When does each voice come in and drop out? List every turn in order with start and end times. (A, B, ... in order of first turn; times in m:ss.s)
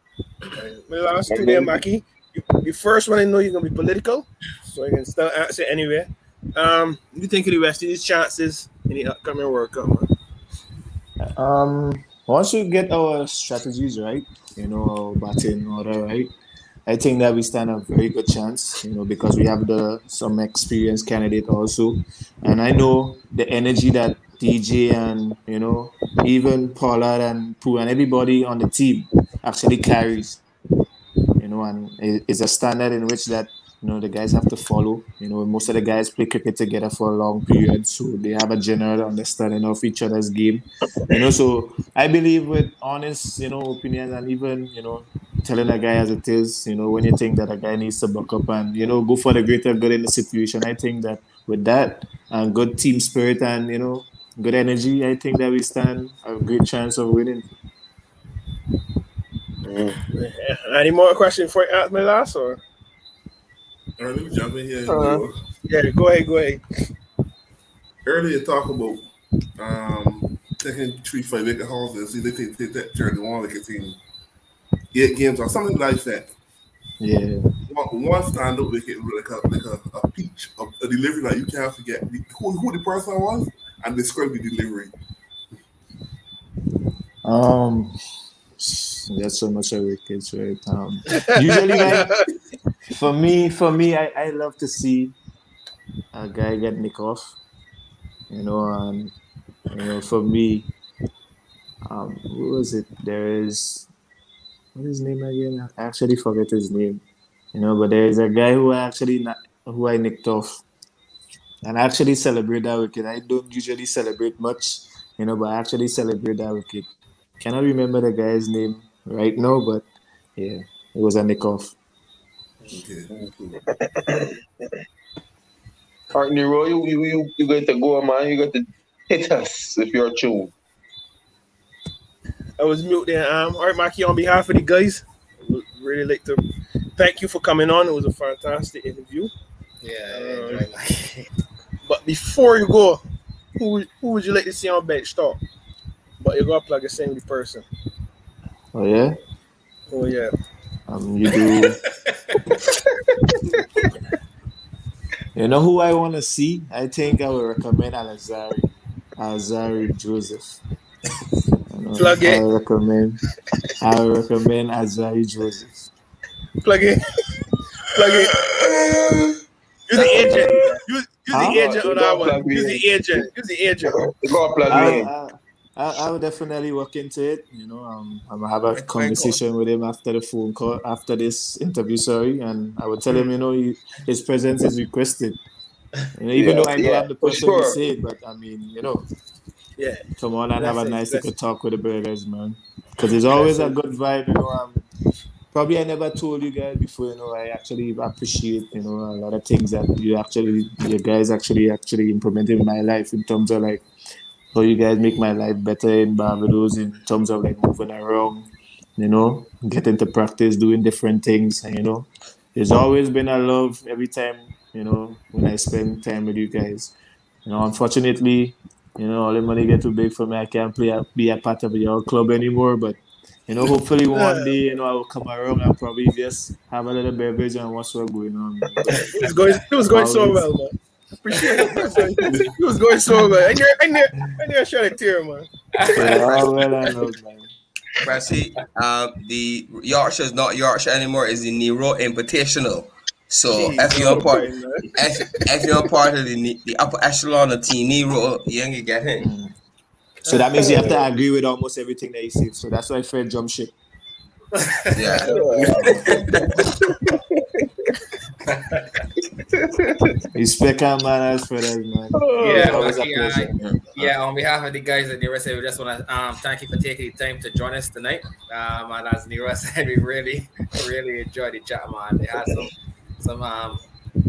0:00.5-0:10.1 A
0:01.3-0:01.8 B
0:11.2-0:16.3 C
0:16.9-0:30.4 C
0:31.4-0:57.5 C
0:59.6-1:00.0 B
1:00.1-1:02.6 A
1:04.0-1:05.4 D
1:04.9-1:05.2 B
1:05.7-1:06.6 A
1:08.0-1:14.0 D
1:14.9-1:16.3 D
1:17.0-1:17.4 C
1:17.7-1:24.9 D
1:27.2-1:28.0 C
1:28.6-1:32.2 C
1:31.3-1:32.3 A
1:32.9-1:35.1 C
1:36.1-1:37.4 C
1:38.3-1:39.1 C
1:39.7-1:40.7 C
1:41.9-1:43.9 C
1:44.7-1:47.0 C
1:47.5-1:50.6 C
1:51.6-1:56.9 C
1:57.4-2:01.7 C
2:02.6-2:03.6 D
2:03.1-2:04.4 B
2:06.1-2:10.5 B
2:12.6-2:16.4 A
2:17.0-2:19.3 A
2:19.8-2:21.3 E
2:20.1-2:20.7 A
2:21.9-2:23.0 A
2:23.6-2:25.4 A
2:26.2-2:27.6 A
2:28.7-2:29.2 C
2:29.9-2:30.3 A
2:30.9-2:31.8 C
2:35.3-2:40.6 C
2:41.7-2:43.2 C
2:42.0-2:42.4 A
2:43.8-2:45.9 C
2:46.6-2:47.0 A
2:48.0-2:48.4 A
2:49.9-2:54.0 A
2:49.9-2:50.8 B
2:51.3-2:51.7 C
2:51.4-2:53.3 B
2:53.9-2:55.1 B
2:54.7-3:05.4 C
2:58.8-2:59.4 F
3:06.2-3:09.0 C
3:06.4-3:07.8 B
3:09.8-3:11.3 A
3:10.2-3:14.8 C
3:13.2-3:13.7 A
3:15.5-3:23.8 C
3:24.5-3:36.9 C
3:37.5-3:50.5 C
3:44.1-3:44.4 A
3:49.1-3:55.5 A
3:51.5-3:52.0 E
3:55.8-3:56.7 E
3:55.9-3:57.5 C
3:58.0-4:09.3 F
4:03.5-4:05.1 A
4:09.2-4:09.5 C
4:10.2-4:13.7 C
4:10.3-4:10.8 A
4:10.6-4:11.0 B
4:14.6-4:15.8 E
4:15.0-4:16.6 F
4:15.2-4:17.7 B
4:18.5-4:18.8 E
4:19.5-4:20.2 B
4:20.3-4:23.6 C
4:22.2-4:23.0 B
4:22.4-4:33.8 E
4:23.6-4:24.1 F